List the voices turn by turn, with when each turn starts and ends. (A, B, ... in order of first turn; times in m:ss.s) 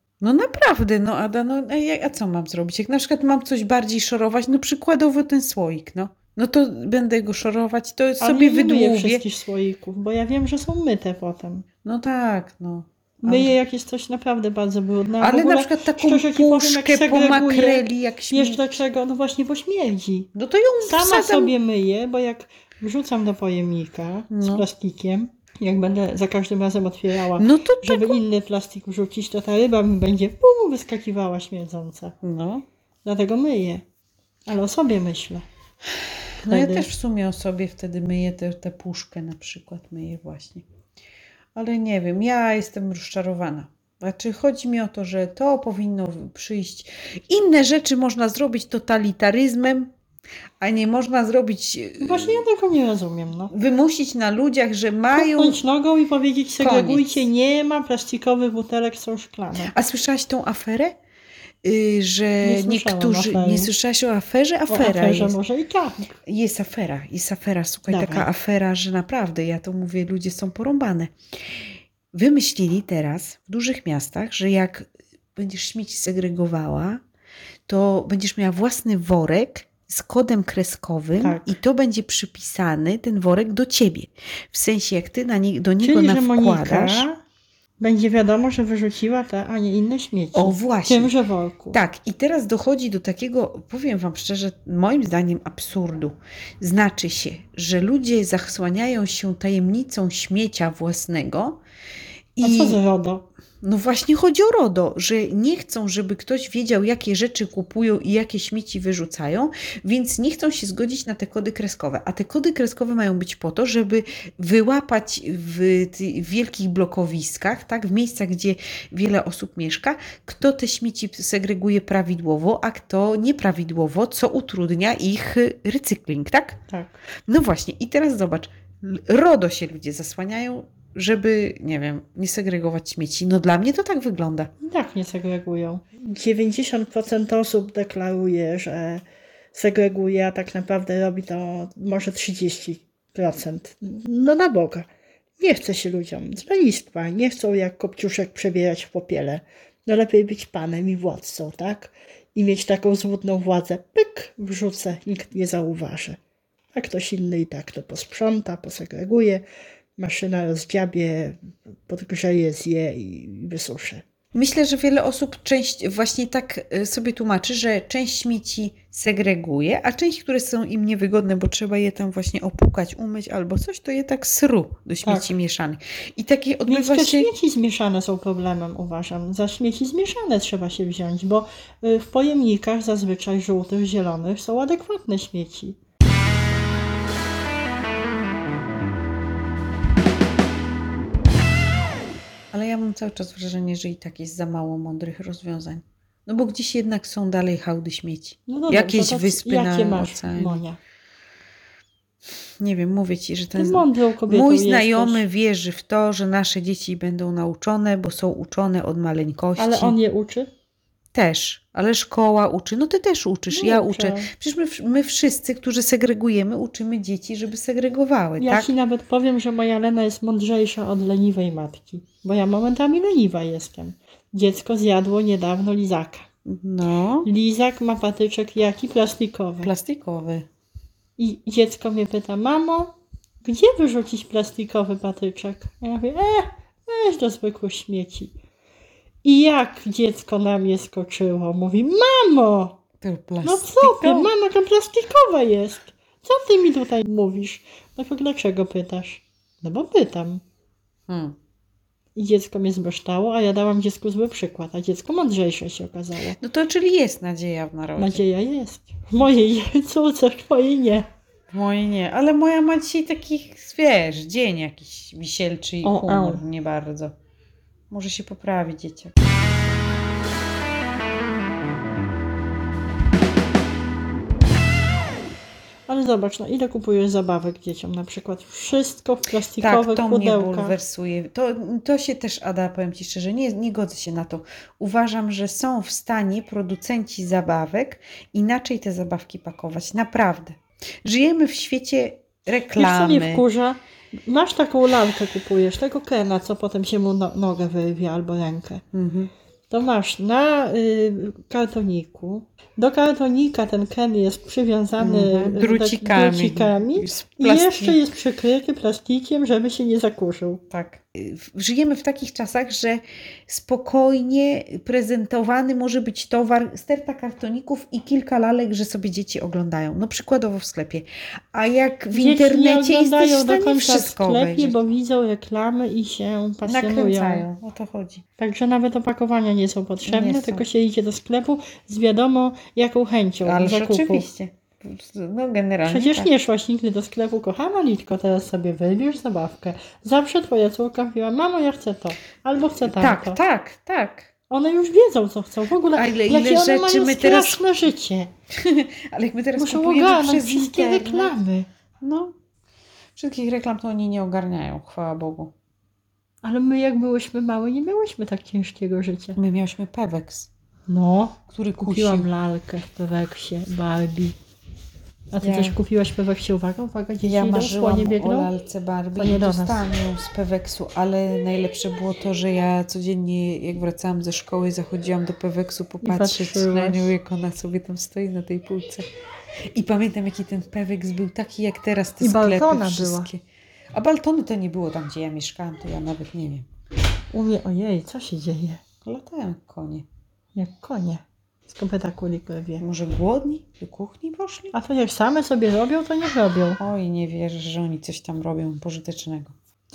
0:00.2-0:09.2 A
0:08.2-0:11.7 B
0:11.8-0:13.6 A
0:13.2-0:20.3 B
0:15.2-0:18.6 A
0:20.4-0:21.5 A
0:20.8-0:32.1 B
0:24.3-0:24.6 A
0:27.4-0:28.2 A
0:32.2-0:32.7 A
0:33.0-0:33.8 B
0:34.5-0:35.5 B
0:35.9-0:40.7 A
0:36.5-0:36.9 B
0:41.6-0:49.9 A
0:50.6-0:52.4 A
0:52.0-0:53.5 B
0:53.5-0:55.6 A
0:55.1-0:59.7 B
0:56.6-0:57.2 A
0:59.7-1:01.0 A
1:01.6-1:05.4 A
1:02.4-1:03.7 B
1:04.7-1:06.2 B
1:06.2-1:11.1 A
1:07.9-1:08.3 B
1:12.1-1:17.0 A
1:17.7-1:27.1 A
1:21.2-1:21.6 B
1:25.8-1:27.2 B
1:27.8-1:31.8 B
1:30.3-1:31.1 A
1:31.7-1:41.6 A
1:42.4-1:42.8 A
1:42.4-1:43.2 B
1:43.6-2:06.6 A
2:06.7-2:07.0 B
2:07.3-2:14.5 A
2:14.6-2:24.9 B
2:25.4-2:36.2 B
2:36.7-2:39.4 B
2:40.0-2:44.0 B
2:44.3-2:57.3 A
2:55.0-2:55.3 B
2:56.7-3:05.8 B
3:12.5-3:20.6 A
3:18.5-3:20.8 B
3:22.6-3:30.0 A
3:23.6-3:25.2 B
3:29.6-3:30.5 B
3:31.1-3:38.7 A
3:33.5-3:34.3 B
3:38.4-3:46.3 B
3:46.5-3:47.3 A
3:47.2-3:49.7 B
3:49.6-3:50.5 A
3:51.2-3:52.9 B
3:53.4-3:58.3 B
3:59.2-4:02.8 B
4:03.0-4:04.3 A
4:03.4-4:10.4 B
4:11.1-4:11.4 A
4:12.2-4:16.4 B
4:16.4-4:18.2 A
4:18.0-4:21.1 B
4:21.5-4:27.2 A
4:25.8-4:26.4 B
4:27.9-4:29.1 A
4:35.9-4:40.8 B
4:39.6-4:53.4 A
4:52.7-4:58.8 B
4:58.9-4:59.3 A
4:59.7-5:10.6 B
5:05.0-5:08.0 A
5:10.7-5:24.8 A
5:22.1-5:27.5 B
5:26.6-5:28.2 A
5:28.4-5:34.3 B
5:30.0-5:30.7 A
5:33.4-5:36.3 A
5:35.9-5:43.4 B
5:42.8-5:44.3 A
5:44.5-5:48.3 B
5:45.9-5:47.6 A
5:48.5-5:51.4 A
5:49.6-5:51.7 B
5:52.0-5:52.3 A
5:53.2-5:55.5 A
5:56.4-5:59.4 B
5:59.4-6:00.5 A
6:00.9-6:04.4 B
6:01.5-6:02.3 A
6:05.3-6:08.5 B
6:05.4-6:05.8 A
6:07.2-6:19.0 A
6:09.2-6:09.8 B
6:16.0-6:17.1 B
6:19.7-6:23.4 A
6:22.2-6:23.3 B
6:23.9-6:26.7 A
6:27.3-6:28.8 B
6:29.0-6:30.1 A
6:30.6-6:32.8 B
6:32.8-6:34.7 A
6:34.7-6:36.8 B
6:36.8-6:39.5 A